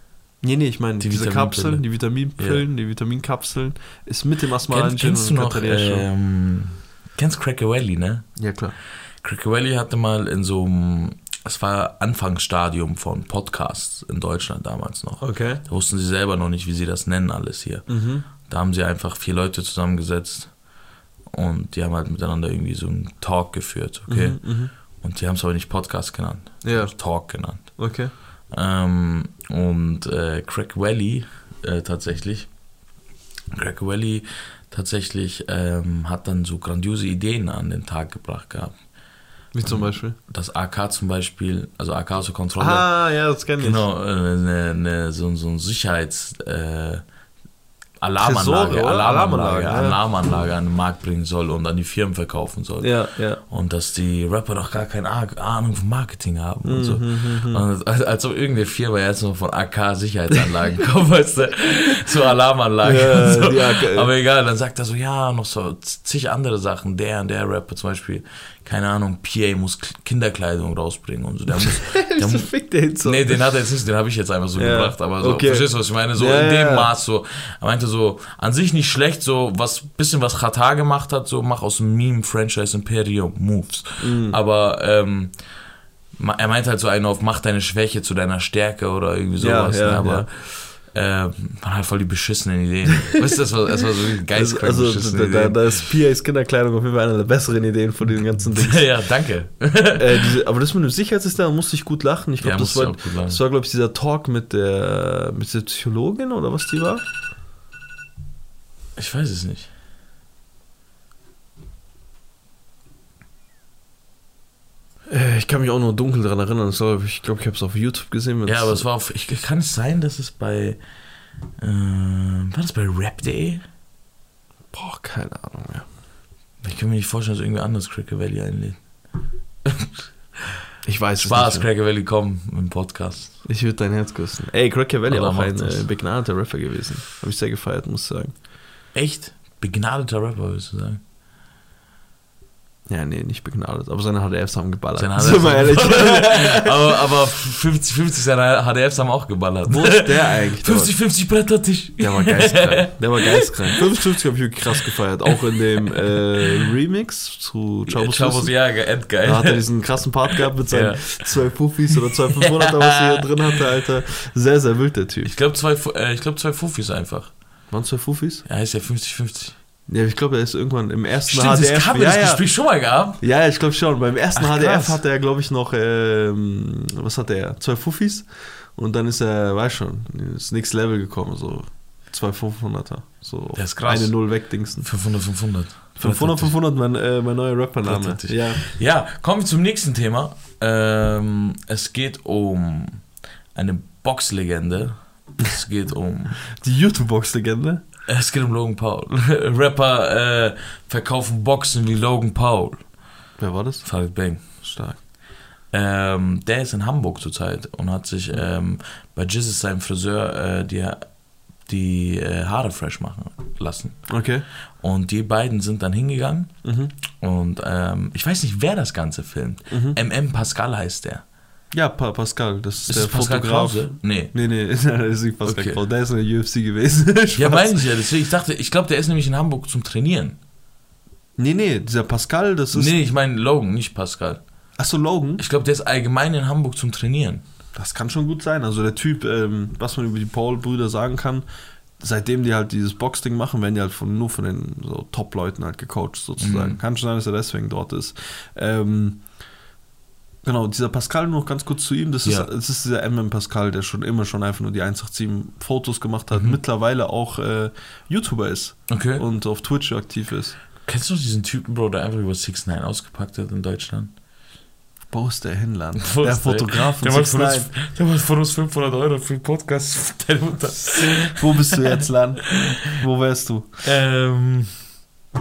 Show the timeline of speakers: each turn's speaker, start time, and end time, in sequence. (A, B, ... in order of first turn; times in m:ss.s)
0:00.4-0:06.1 A
0:01.0-0:02.6 B
0:04.7-0:08.3 B
0:08.4-0:08.8 A
0:09.2-0:20.5 B
0:15.2-0:15.6 A
0:17.9-0:18.3 A
0:21.3-0:27.9 B
0:24.1-0:24.7 A
0:26.6-0:27.0 A
0:27.6-0:28.1 A
0:28.5-0:32.5 B
0:33.5-0:38.8 B
0:39.5-0:40.2 A
0:39.6-0:42.9 B
0:42.6-0:43.8 A
0:43.6-0:47.0 B
0:48.0-1:12.5 B
0:48.2-0:50.0 A
0:52.8-0:53.4 A
0:56.6-0:57.6 A
1:02.8-1:04.1 A
1:11.6-1:13.4 A
1:13.0-1:25.4 B
1:14.6-1:16.9 A
1:24.0-1:24.4 A
1:26.2-1:35.8 B
1:29.4-1:30.3 A
1:34.3-1:38.9 A
1:38.5-1:40.2 B
1:40.0-1:47.0 A
1:42.4-1:43.4 B
1:49.0-1:49.7 B
1:55.1-1:58.9 A
1:58.4-2:00.8 B
2:01.6-2:03.6 B
2:04.7-2:05.9 A
2:06.6-2:08.8 B
2:09.6-2:09.9 B
2:10.8-2:11.7 A
2:11.2-2:13.4 B
2:13.4-2:18.3 A
2:15.1-2:15.9 B
2:18.9-2:21.0 B
2:22.9-2:26.7 A
2:25.0-2:33.4 B
2:29.7-2:31.0 A
2:32.0-2:38.5 A
2:37.9-2:39.6 B
2:39.2-2:45.3 A
2:40.4-2:41.4 B
2:42.4-2:43.6 B
2:45.2-2:47.3 B
2:47.7-2:48.4 A
2:48.5-2:49.6 B
2:49.9-2:52.5 A
2:51.3-2:53.2 B
2:53.2-3:04.9 A
2:54.4-2:55.0 B
3:03.6-3:06.6 B
3:06.0-3:08.6 A
3:07.8-3:16.4 B
3:16.6-3:17.8 A
3:18.1-3:22.8 B
3:23.4-3:23.9 A
3:23.8-3:24.6 B
3:24.4-3:25.0 A
3:25.7-3:31.1 B
3:31.7-3:34.2 B
3:34.1-3:34.5 A
3:34.8-3:36.6 B
3:36.6-3:36.9 A
3:37.1-3:41.2 B
3:39.7-3:40.0 A
3:41.7-3:47.9 A
3:42.9-3:44.3 B
3:45.4-3:45.8 B
3:47.4-3:50.4 B
3:51.4-3:52.9 A
3:52.7-3:54.4 B
3:54.8-3:55.4 A
3:55.4-3:57.4 B
3:57.8-4:01.4 A
4:02.0-4:09.2 A
4:06.4-4:06.8 B
4:10.4-4:20.6 A
4:16.3-4:16.6 B
4:18.9-4:19.2 B
4:20.9-4:24.1 B
4:25.1-4:27.7 A
4:26.0-4:31.8 B
4:31.3-4:33.8 A
4:32.5-4:33.0 B
4:33.8-4:34.8 B